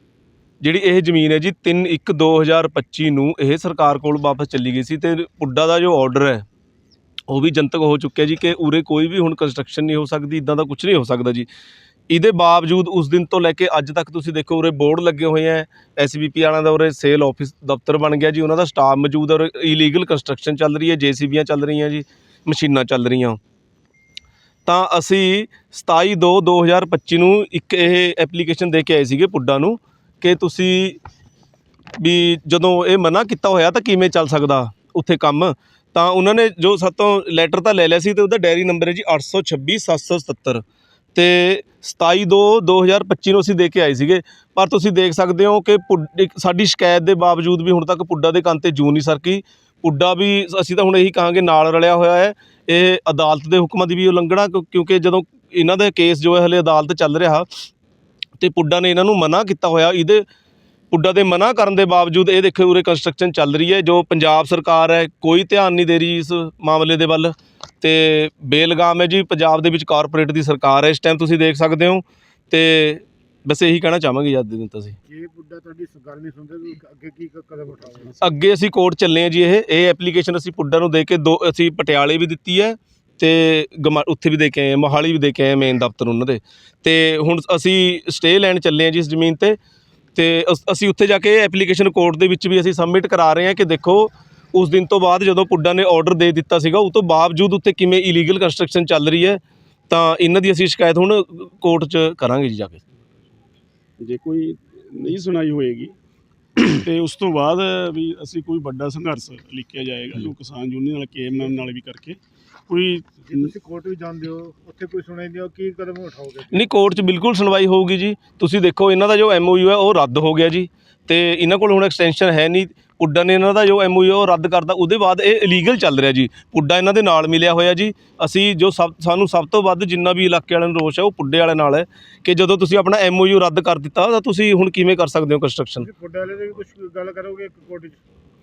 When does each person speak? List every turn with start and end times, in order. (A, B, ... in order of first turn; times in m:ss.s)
0:00.6-0:06.4 A
0:07.3-0:11.5 A
0:12.1-0:23.4 A
0:24.7-0:31.0 A
0:32.0-0:40.6 A
0:41.2-0:57.5 A
0:58.4-1:00.2 A
1:00.9-1:15.0 A
1:15.1-1:18.2 B
1:18.2-1:29.6 A
1:30.2-1:42.8 A
1:44.0-1:45.9 C
1:46.6-1:53.5 C
1:53.2-1:56.7 B
1:56.5-2:15.9 A
2:15.8-2:18.0 B